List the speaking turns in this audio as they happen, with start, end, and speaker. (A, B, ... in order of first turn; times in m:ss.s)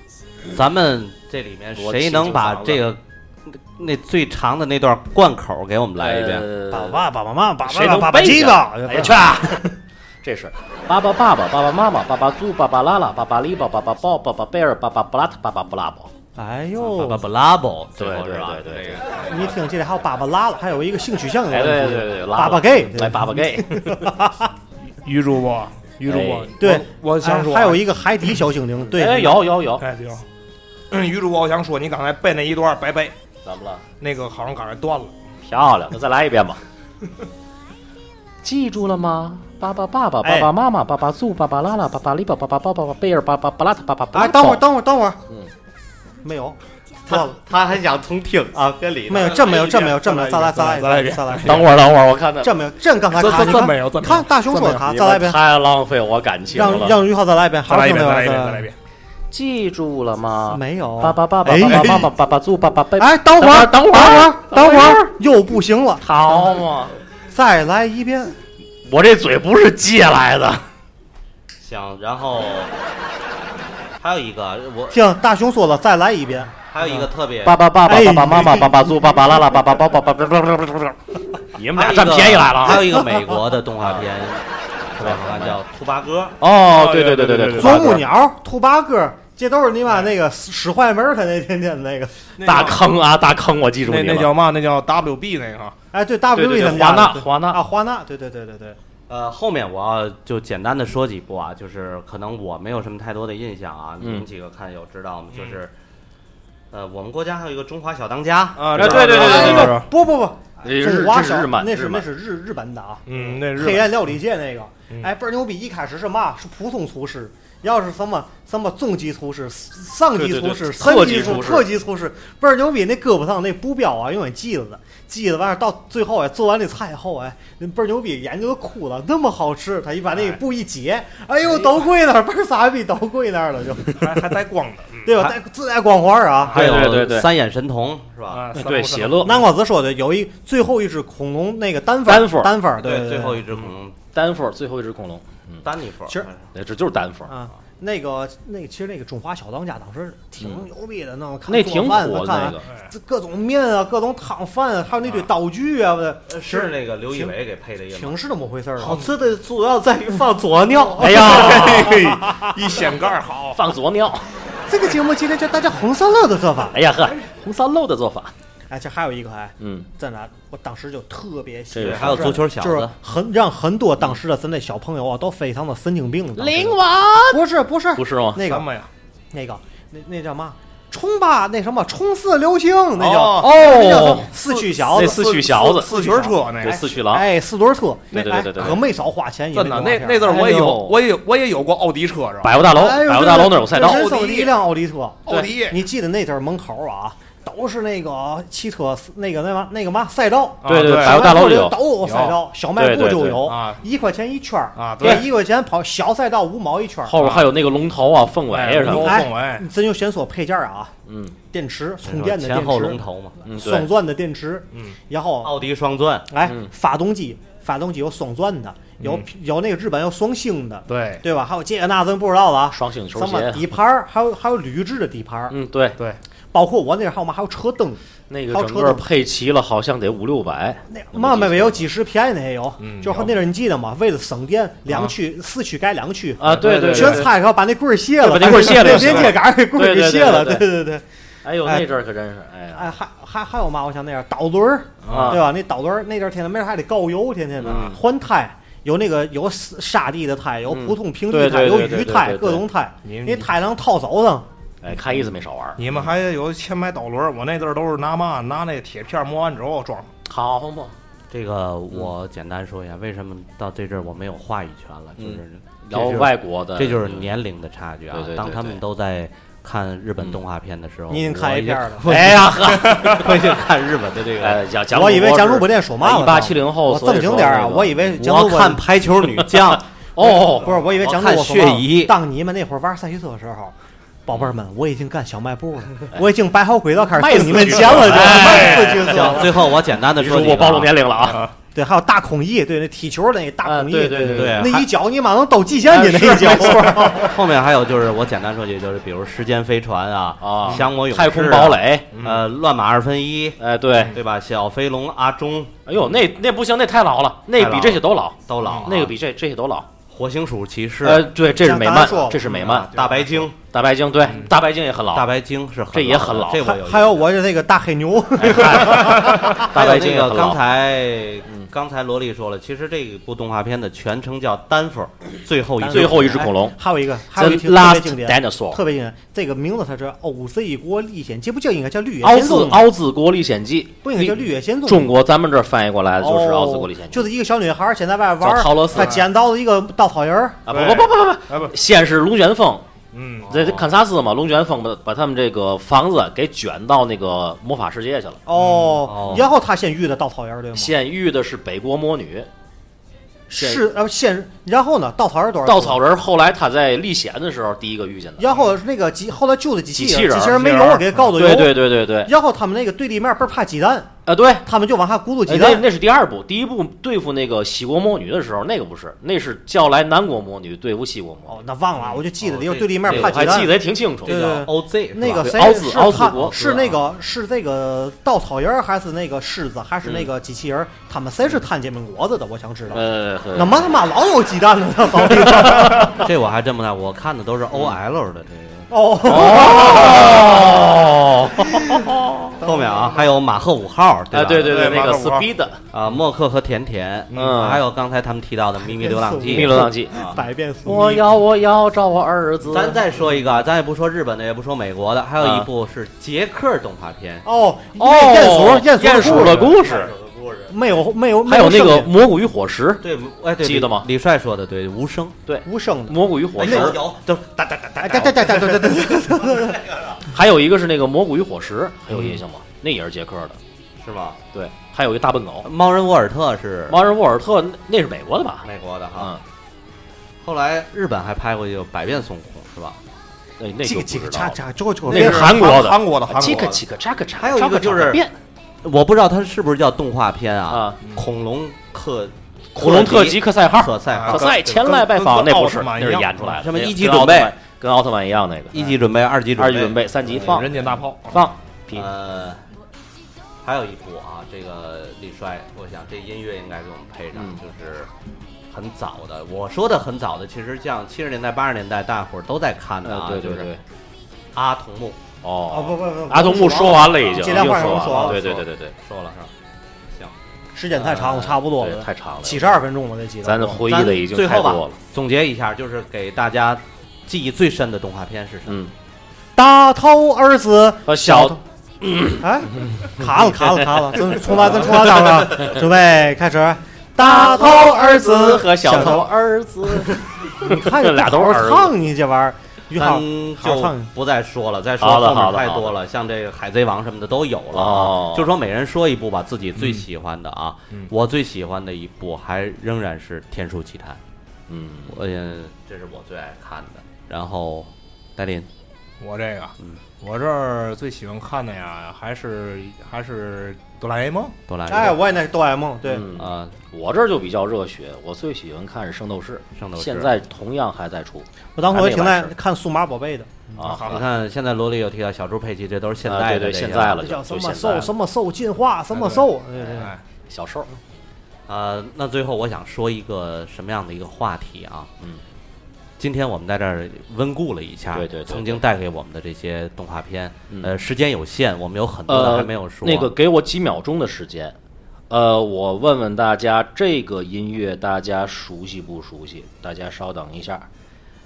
0:00.5-0:06.5 A
0:01.8-0:02.8 B
0:06.0-0:07.0 B
0:06.7-0:09.7 C
0:07.6-0:16.1 B
0:16.4-0:17.2 C
0:16.8-0:19.6 A
0:18.0-0:19.0 B
0:19.2-0:24.5 C
0:21.5-0:24.0 B
0:24.9-0:27.8 D
0:26.1-0:26.6 B
0:26.6-0:29.5 C
0:28.9-0:29.8 B
0:29.8-0:30.2 D
0:30.9-0:33.1 D
0:33.4-0:33.8 B
0:34.0-0:35.1 D
0:35.4-0:36.6 B
0:38.4-0:44.6 B
0:40.2-0:40.5 C
0:44.1-0:45.2 C
0:46.2-0:47.4 C
0:47.1-0:49.6 A
0:49.1-0:51.7 C
0:49.3-0:51.7 D
0:51.4-0:52.6 B
0:52.4-0:55.4 C
0:53.1-0:55.0 D
0:54.9-0:57.0 B
0:56.5-0:58.7 C
0:57.7-0:58.8 D
0:59.3-1:05.2 B
1:00.5-1:02.1 C
1:01.6-1:02.0 D
1:03.0-1:06.5 C
1:06.0-1:07.0 B
1:07.3-1:08.4 C
1:08.8-1:10.6 B
1:11.6-1:12.7 A
1:14.0-1:15.0 A
1:14.9-1:16.5 C
1:16.7-1:17.6 A
1:17.4-1:21.0 B
1:17.8-1:18.9 C
1:21.5-1:23.0 B
1:21.7-1:26.4 A
1:23.8-1:24.1 B
1:25.0-1:25.6 B
1:26.4-1:28.0 B
1:26.6-1:28.0 D
1:27.6-1:32.3 C
1:32.4-1:32.8 D
1:32.4-1:34.3 B
1:33.8-1:35.8 D
1:35.9-1:38.8 C
1:36.3-1:37.6 B
1:39.1-1:45.7 A
1:44.0-1:44.3 B
1:45.3-1:45.6 D
1:46.7-1:49.0 A
1:48.6-1:49.9 D
1:48.8-1:49.8 B
1:48.9-2:14.3 C
1:50.6-1:52.1 B
1:53.1-1:54.0 D
2:00.2-2:01.7 B
2:14.0-2:15.2 D
2:15.0-2:16.6 C
2:16.5-2:17.3 B
2:16.5-2:18.4 A
2:18.3-2:19.4 D
2:18.5-2:19.4 B
2:19.2-2:23.5 C
2:22.1-2:22.6 B
2:22.8-2:24.0 A
2:24.1-2:25.6 B
2:25.6-2:26.4 A
2:26.5-2:27.3 B
2:27.3-2:37.3 C
2:30.4-2:30.6 B
2:31.5-2:32.6 B
2:36.3-2:38.2 A
2:37.9-2:39.1 C
2:38.8-2:41.2 A
2:41.0-2:43.6 D
2:41.0-2:41.9 B
2:41.1-2:42.5 C
2:43.6-2:44.3 B
2:44.7-2:46.8 C
2:46.7-2:48.3 B
2:48.7-2:58.7 C
2:49.6-2:49.9 B
2:51.7-2:52.4 B
2:51.8-2:52.9 A
2:56.4-2:58.4 B
2:58.4-2:58.9 D
2:59.3-3:10.4 C
3:03.0-3:03.9 D
3:03.3-3:05.9 B
3:04.5-3:06.8 D
3:06.6-3:07.3 B
3:08.1-3:08.8 B
3:09.5-3:12.6 D
3:10.2-3:11.0 B
3:12.4-3:14.0 B
3:12.7-3:27.2 C
3:13.7-3:14.6 D
3:15.3-3:15.8 D
3:20.6-3:21.4 D
3:20.7-3:21.8 B
3:22.0-3:22.4 D
3:22.8-3:23.4 B
3:23.4-3:23.8 D
3:24.8-3:25.2 D
3:27.1-3:29.2 B
3:27.2-3:27.5 D
3:28.5-3:29.7 D
3:28.8-3:30.9 C
3:31.1-3:31.4 B
3:31.5-3:35.6 C
3:32.0-3:33.4 A
3:33.4-3:33.9 B
3:35.4-3:36.3 A
3:36.3-3:45.6 C
3:36.4-3:36.7 B
3:39.0-3:39.3 D
3:40.9-3:41.2 D
3:42.7-3:43.7 B
3:45.5-3:46.0 B
3:46.5-3:49.1 C
3:48.3-3:51.9 B
3:50.9-4:01.0 C
3:52.8-3:53.4 D
3:54.9-3:55.1 D
3:56.4-3:57.3 B
3:56.4-3:57.3 D
3:58.2-4:00.7 B
3:58.4-3:59.4 D
4:01.4-4:02.9 B
4:01.6-4:01.9 C
4:02.7-4:14.5 C
4:05.0-4:05.4 D
4:05.1-4:05.5 B
4:07.6-4:08.0 B
4:10.7-4:12.6 B
4:13.0-4:13.5 D
4:14.8-4:16.1 B
4:15.8-4:20.1 D
4:20.3-4:21.0 B
4:21.3-4:34.6 A
4:25.2-4:27.3 B
4:28.1-4:28.8 B
4:31.1-4:32.3 C
4:32.1-4:33.4 B
4:34.4-4:38.0 B
4:34.9-4:38.8 C
4:38.2-4:39.9 A
4:40.2-4:40.8 B
4:40.2-4:43.7 C
4:40.9-4:42.2 A
4:44.3-4:49.7 C
4:47.1-4:49.2 B
4:48.1-4:49.1 D
4:49.0-4:51.0 A
4:50.2-4:51.5 B
4:51.7-4:57.4 C
4:53.6-4:54.7 B
4:54.2-4:54.9 A
4:55.9-4:57.1 B
4:55.9-4:57.3 D
4:57.3-5:03.6 A
5:00.4-5:02.1 B
5:02.1-5:02.4 D
5:03.6-5:04.2 B
5:04.1-5:05.8 A
5:05.9-5:09.9 B
5:07.5-5:09.1 A
5:08.6-5:08.9 D
5:10.1-5:11.3 A
5:11.0-5:12.9 B
5:11.6-5:12.4 C
5:12.3-5:13.5 D
5:12.4-5:13.6 A
5:13.7-5:15.3 B
5:14.2-5:14.5 D
5:15.1-5:17.3 A
5:15.9-5:16.7 B
5:16.6-5:19.7 C
5:18.4-5:20.6 B
5:19.0-5:19.4 D
5:19.6-5:26.4 A
5:25.8-5:32.9 C
5:25.9-5:26.8 B
5:27.3-5:28.8 B
5:32.2-5:37.3 B
5:34.0-5:35.1 C
5:36.2-5:40.6 C
5:38.4-5:39.2 B
5:38.9-5:39.3 D
5:40.7-5:42.9 B
5:40.7-5:41.8 D
5:43.1-5:43.6 D
5:43.4-5:43.9 A
5:43.5-5:48.4 B
5:48.5-5:51.0 C
5:48.5-5:49.0 D
5:49.0-5:49.5 A
5:50.8-5:52.5 B
5:53.5-5:56.0 C
5:53.5-5:53.9 B
5:55.6-5:58.5 B
5:58.4-6:04.1 C
5:59.9-6:02.3 B
6:04.3-6:04.7 B
6:04.6-6:05.9 C
6:05.5-6:11.6 B
6:11.5-6:26.2 C
6:12.2-6:13.7 A
6:13.1-6:14.6 B
6:14.2-6:15.6 A
6:15.2-6:17.0 B
6:22.9-6:23.8 B
6:26.1-6:28.9 A
6:27.7-6:28.0 B
6:28.9-6:30.6 C
6:29.2-6:32.0 B
6:31.8-6:33.2 C
6:32.6-6:34.8 A
6:34.3-6:35.8 B
6:34.6-6:35.5 D
6:35.9-6:40.4 A
6:37.3-6:37.8 B
6:38.8-6:41.3 C
6:39.5-6:40.3 B
6:40.8-6:43.0 B
6:42.7-6:47.5 A
6:45.4-6:45.7 B
6:47.4-6:49.7 C
6:48.0-6:50.1 B
6:49.3-6:50.8 A
6:49.4-6:49.7 D
6:50.7-6:52.1 C
6:51.5-6:53.0 B
6:53.0-6:55.4 A
6:53.6-6:54.1 B
6:55.5-6:57.0 B
6:55.6-6:57.0 C
6:56.6-7:00.3 A
6:58.0-6:59.8 C
7:00.3-7:03.6 B
7:04.0-7:04.4 A
7:04.5-7:05.7 B
7:05.6-7:07.0 A
7:06.9-7:09.4 B
7:08.6-7:09.4 A
7:10.4-7:13.0 A
7:13.6-7:18.3 B
7:13.8-7:15.8 C
7:15.0-7:16.8 D
7:16.4-7:16.7 A
7:17.4-7:18.3 A
7:18.8-7:24.9 A
7:20.7-7:21.0 B
7:21.0-7:21.3 D
7:22.7-7:28.9 B
7:24.1-7:26.6 D
7:26.6-7:27.6 A
7:28.7-7:30.0 A
7:29.6-7:32.1 B
7:30.2-7:31.4 D
7:31.9-7:32.6 A
7:33.6-7:38.1 A
7:37.3-7:37.6 B
7:38.7-7:43.7 A
7:43.0-7:43.8 B
7:44.6-7:45.2 A
7:45.4-7:48.9 B
7:45.7-7:48.4 C
7:47.9-7:49.5 A
7:50.7-7:53.8 C
7:50.9-7:52.7 B
7:53.4-7:55.0 B
7:53.9-7:58.8 A
7:58.7-7:58.9 B
7:59.6-8:01.6 C
8:01.1-8:03.0 B
8:02.4-8:09.3 C
8:04.5-8:05.6 B
8:07.2-8:12.0 B
8:09.9-8:14.1 C
8:13.0-8:24.2 A
8:15.0-8:16.0 B
8:17.7-8:18.5 B
8:19.8-8:20.0 D
8:24.7-8:25.2 B
8:25.1-8:28.7 A
8:29.2-8:34.6 D
8:34.7-8:35.3 A
8:34.9-8:36.3 C
8:36.1-8:42.6 B
8:36.4-8:36.8 A
8:39.8-8:40.3 A
8:41.8-8:43.8 C
8:43.8-8:44.2 B
8:43.8-8:44.2 D
8:43.8-8:47.2 A
8:46.2-8:48.1 B
8:47.2-8:50.1 C
8:49.1-8:50.2 D
8:50.5-8:51.0 B
8:51.7-8:55.1 A
8:56.2-9:03.3 A
8:58.1-8:58.8 B
9:02.3-9:04.8 B
9:05.3-9:10.9 B